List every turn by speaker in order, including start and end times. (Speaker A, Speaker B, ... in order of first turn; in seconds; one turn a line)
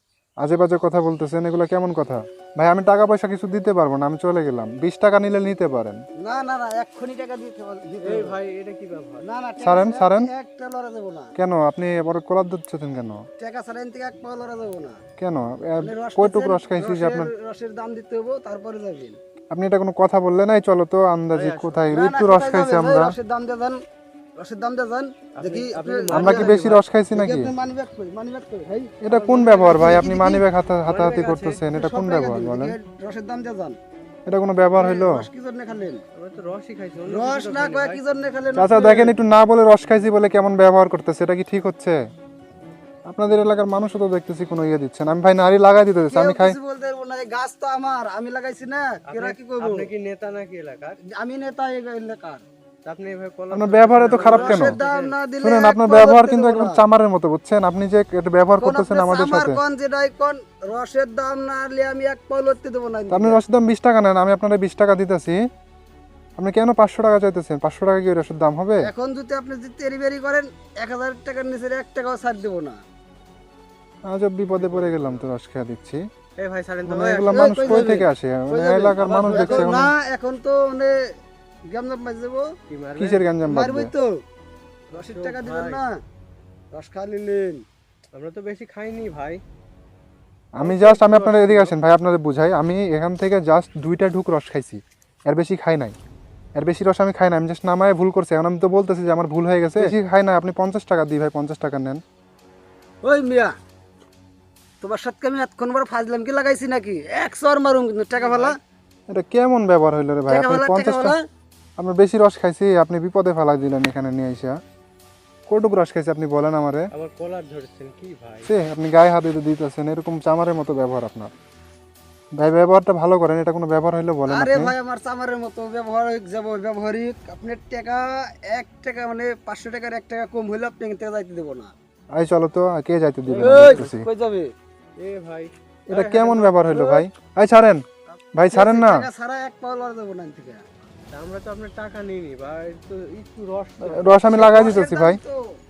Speaker A: 0.4-6.0
Speaker B: 6.2-8.4
Speaker C: 8.0-9.2
Speaker B: 9.2-11.3
Speaker A: 9.6-10.3
Speaker A: 11.4-13.2
Speaker B: 13.4-15.0
Speaker A: 15.2-17.3
Speaker B: 15.8-19.2
Speaker A: 19.5-23.1
Speaker C: 21.3-21.9
Speaker B: 21.9-23.8
Speaker B: 24.4-30.5
Speaker C: 25.4-26.8
Speaker A: 26.1-27.5
Speaker A: 29.0-32.8
Speaker C: 30.8-31.6
Speaker B: 31.7-33.8
Speaker A: 34.3-35.2
Speaker B: 34.8-36.0
Speaker C: 36.1-38.0
Speaker B: 37.0-39.2
Speaker A: 38.5-42.0
Speaker A: 43.1-46.5
Speaker B: 46.1-49.9
Speaker C: 49.1-51.0
Speaker B: 51.1-52.4
Speaker C: 52.8-55.1
Speaker A: 53.5-54.8
Speaker B: 54.1-56.8
Speaker A: 55.4-59.6
Speaker B: 58.6-63.4
Speaker A: 63.1-65.4
Speaker A: 66.4-68.9
Speaker B: 68.8-72.8
Speaker A: 74.1-76.0
Speaker C: 74.5-75.3
Speaker C: 76.4-78.0
Speaker A: 76.8-79.9
Speaker B: 77.2-81.0
Speaker C: 79.0-79.8
Speaker B: 81.7-82.5
Speaker C: 82.7-83.3
Speaker A: 83.0-83.9
Speaker B: 83.4-84.1
Speaker C: 84.9-85.8
Speaker B: 84.9-86.0
Speaker B: 86.7-87.6
Speaker C: 88.1-89.4
Speaker A: 90.5-96.0
Speaker C: 90.6-91.8
Speaker A: 96.6-102.0
Speaker B: 103.0-103.5
Speaker B: 104.8-108.6
Speaker C: 108.2-108.6
Speaker A: 109.1-111.1
Speaker B: 110.3-111.2
Speaker A: 111.8-114.5
Speaker A: 115.5-116.9
Speaker C: 116.9-118.5
Speaker A: 118.5-121.3
Speaker A: 122.4-124.7
Speaker B: 124.3-131.7
Speaker A: 132.2-134.0
Speaker C: 133.3-133.8
Speaker B: 133.3-134.5
Speaker C: 135.0-136.7
Speaker A: 135.9-137.8
Speaker B: 136.7-137.0
Speaker A: 138.3-139.1
Speaker B: 138.5-140.6
Speaker C: 141.1-144.4
Speaker A: 143.8-145.2
Speaker B: 144.3-145.6